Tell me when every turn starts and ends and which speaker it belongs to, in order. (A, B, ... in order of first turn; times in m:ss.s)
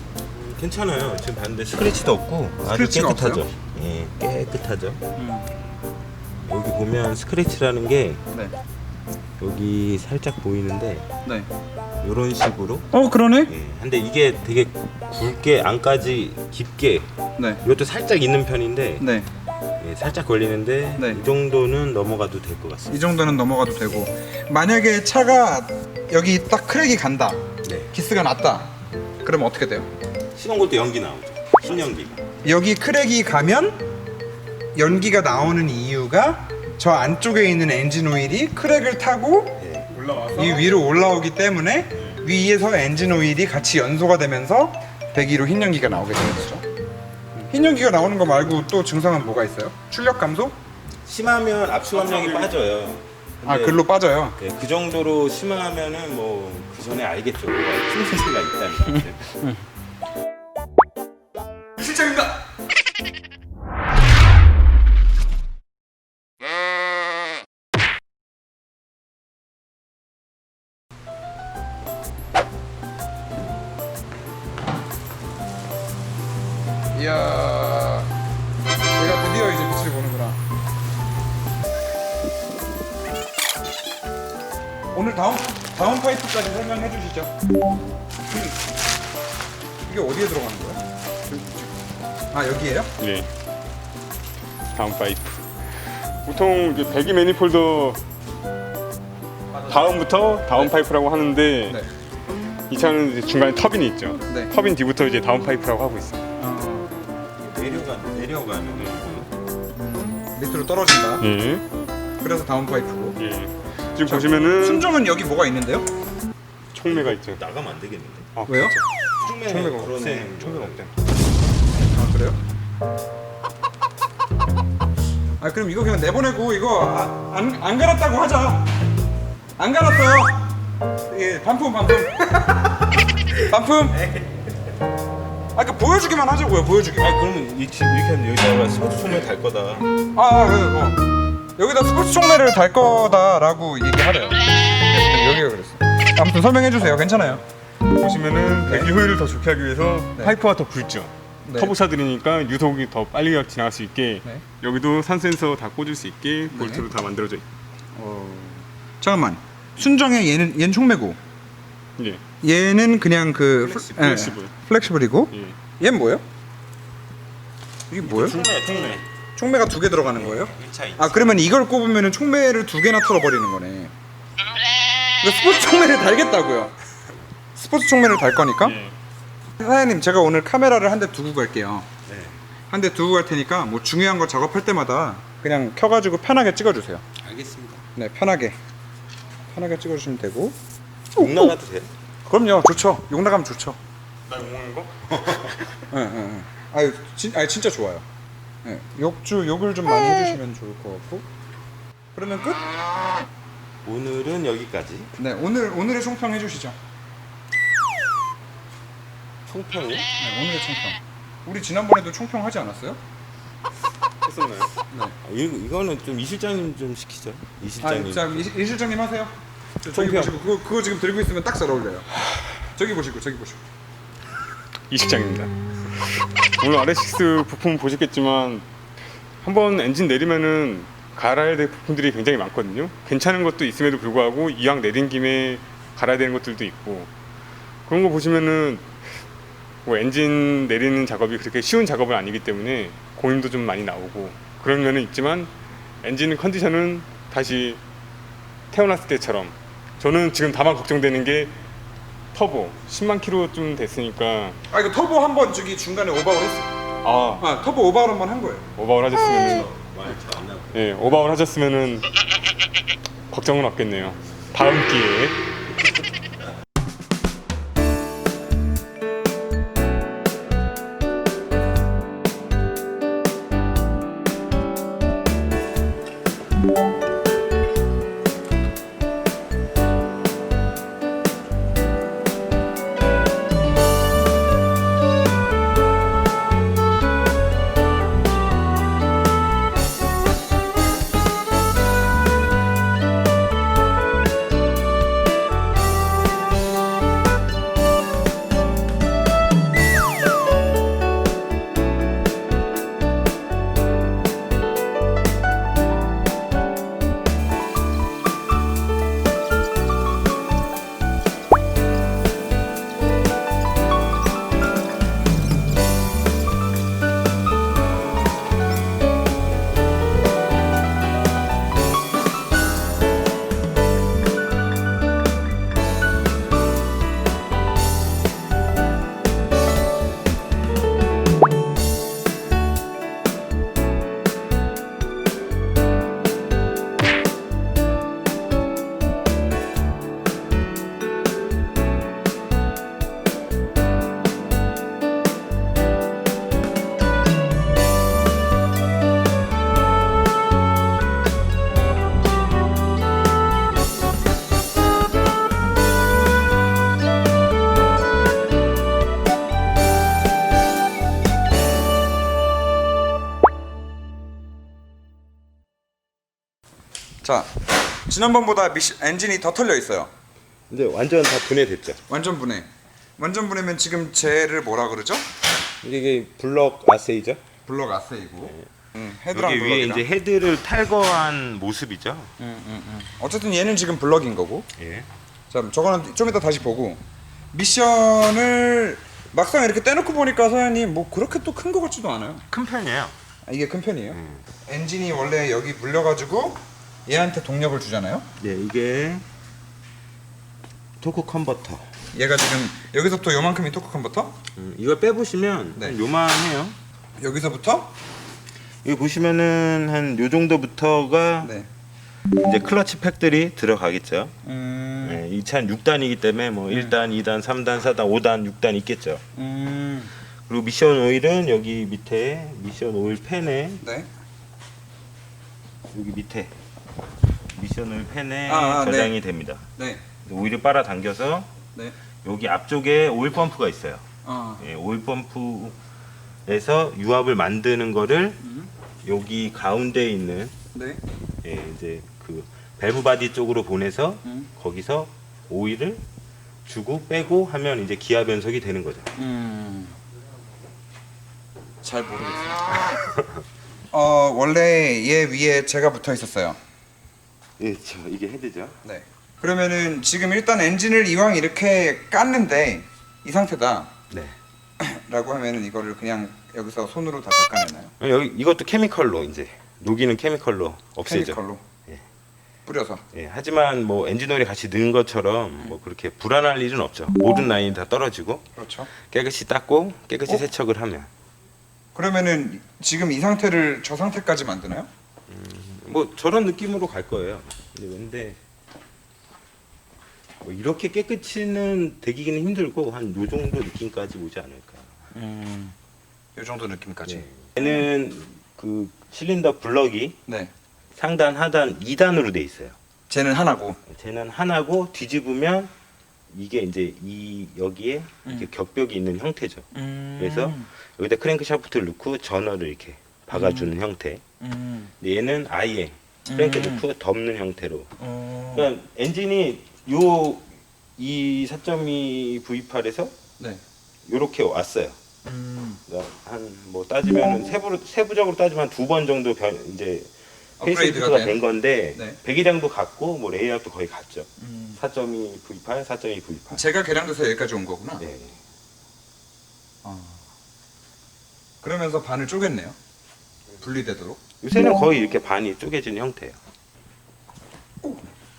0:00.5-0:05.0 A
0:02.6-0:03.4 B
0:05.2-0:05.5 B
0:06.5-0:08.2 A
0:08.3-0:08.6 B
0:09.4-0:11.1 A
0:12.0-0:12.9 A
0:12.9-0:13.5 B
0:13.5-0:17.1 A
0:17.6-0:19.1 A
0:19.0-0:19.3 B
0:19.8-0:22.9 A
0:22.9-0:28.7 B
0:27.6-0:27.9 A
0:29.2-0:29.9 B
0:30.3-0:32.2 A
0:32.4-0:33.8 B
0:34.7-0:39.6 B
0:39.6-0:39.9 A
0:39.9-0:40.8 C
0:40.3-0:46.6 B
0:47.4-0:50.6 B
0:51.0-0:53.8 A
0:51.9-0:52.6 C
0:53.4-0:54.4 B
0:54.4-0:59.4 A
1:01.8-1:02.4 B
1:16.9-1:18.1 B
1:19.0-1:20.4 B
1:24.9-1:27.3 B
1:29.8-1:30.8 B
1:31.3-1:31.7 C
1:32.3-1:32.9 B
1:33.0-1:33.3 C
1:34.7-1:38.0 C
1:39.6-1:41.8 C
1:42.7-1:46.2 C
1:46.4-1:46.9 B
1:47.4-1:49.3 A
1:50.1-1:51.2 B
1:51.2-1:51.6 C
1:52.2-1:53.2 B
1:53.2-1:54.9 C
1:54.0-1:55.9 B
1:56.7-1:57.4 C
1:56.8-1:58.3 A
1:58.4-1:58.9 C
1:58.5-1:58.8 B
1:59.2-2:00.9 A
1:59.5-1:59.9 B
1:59.5-2:00.9 C
2:01.9-2:02.4 B
2:05.4-2:08.7 B
2:09.6-2:10.5 B
2:11.0-2:12.6 B
2:13.5-2:14.0 B
2:14.0-2:14.2 A
2:15.5-2:17.2 B
2:17.0-2:19.9 A
2:20.1-2:21.0 B
2:21.6-2:27.4 B
2:28.0-2:37.4 C
2:28.6-2:28.9 B
2:31.4-2:31.8 B
2:36.5-2:36.9 B
2:37.9-2:41.2 B
2:42.4-2:46.2 B
2:43.6-2:44.2 A
2:44.0-2:44.5 C
2:47.9-2:48.4 B
2:48.0-2:49.0 A
2:49.3-2:53.9 B
2:50.0-2:51.4 A
2:55.2-2:56.7 B
2:57.5-2:58.8 B
2:58.6-2:58.9 C
2:59.6-3:01.9 B
3:02.1-3:02.4 A
3:02.7-3:07.0 B
3:07.2-3:07.8 A
3:07.9-3:08.6 B
3:09.5-3:10.6 B
3:11.2-3:11.9 A
3:11.2-3:11.5 B
3:12.2-3:13.8 B
3:14.3-3:15.6 C
3:15.0-3:15.8 A
3:15.9-3:18.0 B
3:18.6-3:21.2 B
3:22.1-3:22.7 B
3:23.8-3:25.1 A
3:25.1-3:26.8 B
3:29.5-3:30.1 A
3:30.2-3:33.0 B
3:34.2-3:34.7 C
3:34.9-3:35.1 B
3:35.2-3:38.5 A
3:37.8-3:42.1 B
3:39.8-3:40.3 C
3:42.7-3:43.6 B
3:44.9-3:48.7 C
3:49.4-3:57.1 C
3:57.8-3:58.9 C
3:59.8-4:05.5 C
4:06.0-4:07.8 C
4:08.7-4:11.5 C
4:12.3-4:14.6 C
4:14.7-4:16.7 B
4:17.0-4:17.4 C
4:17.4-4:18.6 B
4:18.8-4:20.2 C
4:19.1-4:21.2 A
4:20.7-4:22.1 C
4:23.3-4:25.4 C
6:07.2-6:07.5 B
6:08.1-6:10.1 B
6:10.7-6:12.0 A
6:12.1-6:15.3 B
6:15.8-6:17.4 A
6:17.6-6:20.1 B
6:18.4-6:18.7 A
6:19.3-6:22.3 A
6:22.4-6:24.7 B
6:24.8-6:25.1 A
6:25.5-6:27.0 B
6:27.5-6:32.4 B
6:32.5-6:33.2 A
6:33.4-6:38.3 B
6:34.1-6:34.4 A
6:38.4-6:39.2 A
6:41.0-6:41.9 A
6:42.1-6:44.4 B
6:44.6-6:46.8 A
6:47.2-6:47.9 B
6:48.8-6:51.5 A
6:51.4-6:51.7 B
6:52.4-6:54.3 A
6:54.4-6:55.2 B
6:55.0-6:59.2 A
6:59.3-7:00.1 B
7:00.5-7:03.8 A
7:03.8-7:04.1 B
7:05.9-7:06.5 A
7:07.5-7:09.7 A
7:08.4-7:09.2 B
7:09.8-7:10.1 B
7:10.2-7:11.5 A
7:12.2-7:14.0 A
7:14.2-7:14.7 B
7:14.6-7:15.8 A
7:16.4-7:18.4 A
7:18.4-7:18.7 B
7:19.0-7:20.5 A
7:20.7-7:21.0 B
7:21.4-7:26.0 A
7:24.2-7:24.5 B
7:26.6-7:29.1 A
7:29.1-7:30.0 B
7:31.8-7:32.7 B
7:33.9-7:36.6 B
7:37.6-7:38.8 A
7:38.8-7:43.9 B
7:44.1-7:44.4 A
7:44.8-7:47.9 B
7:48.0-7:52.0 A
7:51.0-7:51.6 B
7:52.6-7:53.0 B
7:53.1-7:58.5 A
7:58.6-7:58.9 B
7:59.0-8:01.1 A
8:01.9-8:04.9 B
8:05.3-8:08.4 A
8:10.4-8:14.9 A
8:15.1-8:15.7 B
8:16.4-8:17.3 B
8:17.0-8:20.2 A
8:20.2-8:20.5 B
8:21.0-8:22.8 A
8:23.1-8:23.8 B
8:23.9-8:25.7 A
8:26.3-8:34.2 A
8:29.7-8:30.7 B
8:33.3-8:33.7 B
8:34.4-8:34.9 B
8:35.0-8:37.9 A
8:36.2-8:36.8 B
8:38.0-8:38.7 B
8:38.5-8:43.1 A
8:44.0-8:45.0 A
8:45.2-8:45.8 B
8:45.9-8:56.6 A
8:50.6-8:51.4 B
8:54.4-8:54.8 B
8:56.5-8:58.0 B
8:58.0-8:58.4 A
8:59.8-9:00.2 B
9:01.6-9:02.8 B
9:03.6-9:04.2 B
9:04.4-9:06.4 A